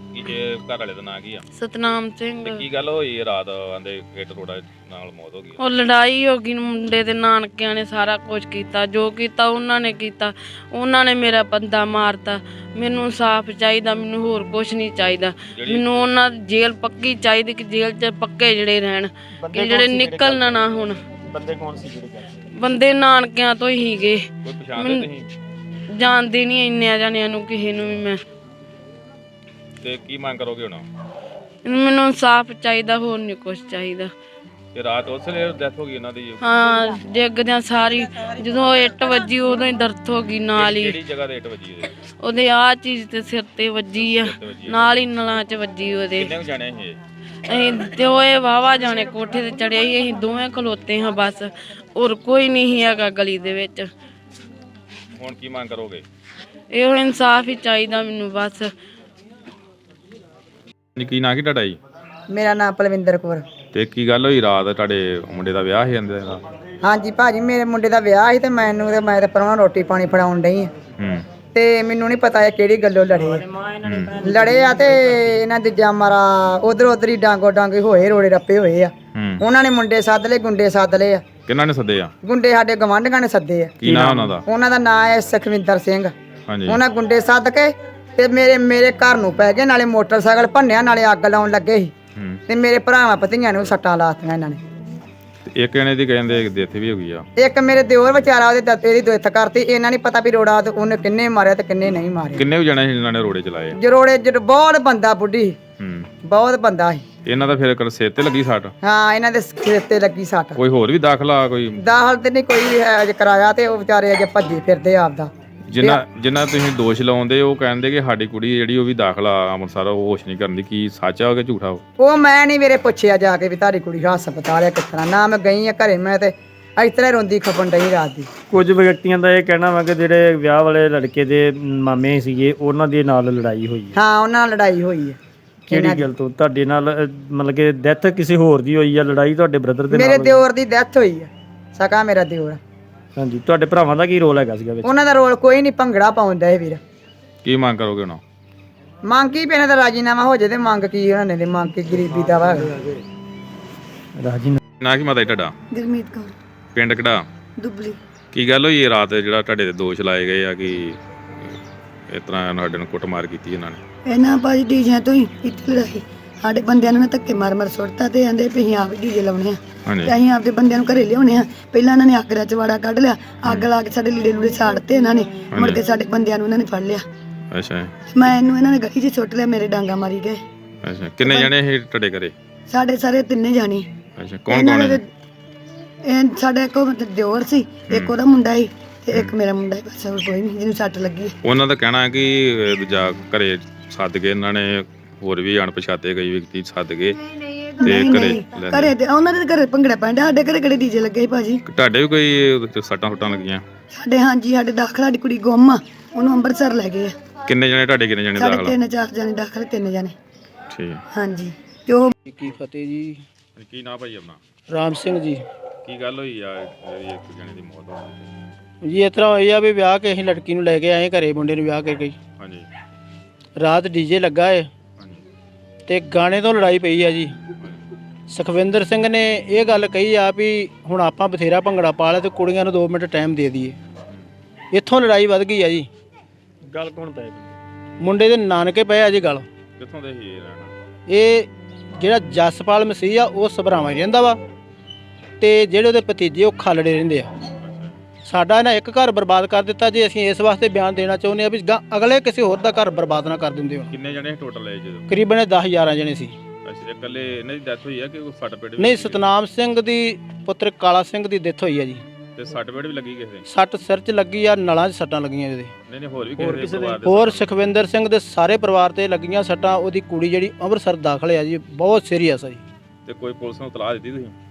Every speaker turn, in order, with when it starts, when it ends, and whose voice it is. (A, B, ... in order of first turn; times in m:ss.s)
0:00.1-0:01.4 A
0:01.5-0:02.6 B
0:02.4-0:05.6 A
0:05.6-0:21.0 B
0:15.5-0:15.8 A
0:19.4-0:20.6 C
0:21.2-0:22.3 C
0:22.6-0:24.2 B
0:24.4-0:25.3 A
0:24.8-0:25.1 B
0:26.0-0:28.2 B
0:29.8-0:30.8 A
0:31.6-0:34.1 B
0:34.8-0:36.4 A
0:36.4-0:41.0 B
0:40.5-0:41.9 A
0:42.2-0:46.3 B
0:44.2-0:45.0 A
0:46.2-0:47.0 A
0:47.5-0:53.9 B
0:55.2-0:56.0 A
0:56.7-0:58.7 B
1:01.0-1:01.8 A
1:02.3-1:03.4 D
1:03.7-1:06.4 A
1:06.8-1:10.7 D
1:11.0-1:11.3 A
1:11.5-1:13.4 D
1:13.3-1:15.1 C
1:13.8-1:14.2 A
1:14.2-1:21.2 D
1:19.1-1:19.4 A
1:21.5-1:22.1 A
1:22.2-1:26.1 D
1:23.8-1:24.4 A
1:26.5-1:26.8 A
1:26.7-1:31.9 D
1:32.2-1:32.4 A
1:32.5-1:34.6 D
1:35.5-1:37.3 A
1:37.4-1:42.4 D
1:42.4-1:43.8 A
1:43.8-1:45.6 D
1:45.8-1:46.1 A
1:46.2-1:47.0 D
1:47.3-1:48.7 A
1:48.8-1:50.6 D
1:50.6-1:51.8 A
1:51.8-1:56.0 D
1:55.7-2:01.8 A
2:02.0-2:08.3 D
2:08.5-2:14.0 C
2:14.0-2:16.1 D
2:15.7-2:20.4 C
2:19.9-2:22.6 D
2:23.2-2:24.9 C
2:24.8-2:26.8 D
2:27.4-2:28.2 A
2:29.0-2:32.7 D
2:34.2-2:34.6 C
2:34.8-2:35.5 A
2:35.7-2:36.4 E
2:36.8-2:37.3 A
2:37.6-2:38.0 E
2:38.3-2:41.6 A
2:42.1-2:43.8 A
2:44.0-2:57.0 E
2:49.9-2:50.1 A
2:53.4-2:53.7 A
2:55.5-2:55.8 A
2:57.5-2:58.0 A
2:58.1-3:00.4 E
3:00.8-3:02.3 A
3:02.7-3:03.9 E
3:04.2-3:05.0 A
3:04.5-3:05.1 E
3:06.0-3:11.3 E
3:07.9-3:08.2 A
3:11.4-3:17.2 A
3:17.8-3:21.6 E
3:17.8-3:19.0 A
3:21.7-3:23.6 A
3:23.9-3:27.2 E
3:27.5-3:28.8 A
3:28.4-3:30.2 E
3:30.7-3:31.0 A
3:31.1-3:32.1 E
3:32.3-3:33.2 F
3:33.6-3:34.4 A
3:34.7-3:35.4 F
3:35.8-3:38.3 A
3:38.8-3:42.2 F
3:42.4-3:42.7 A
3:43.6-3:44.7 F
3:45.9-3:47.4 F
3:48.3-3:53.8 F
3:54.7-3:55.9 F
3:56.7-3:57.5 C
3:58.0-3:59.5 F
3:59.8-4:00.7 A
4:01.1-4:01.5 F
4:02.0-4:04.4 F
4:05.4-4:07.3 F
4:07.6-4:08.0 A
4:08.3-4:13.9 F
4:13.9-4:15.2 A
4:15.1-4:16.4 F
4:16.6-4:19.3 A
4:18.8-4:22.0 F
4:22.4-4:23.4 A
4:23.5-4:25.7 F
4:25.9-4:27.6 A
4:26.4-4:27.0 C
4:27.0-4:32.6 F
4:33.1-4:34.4 A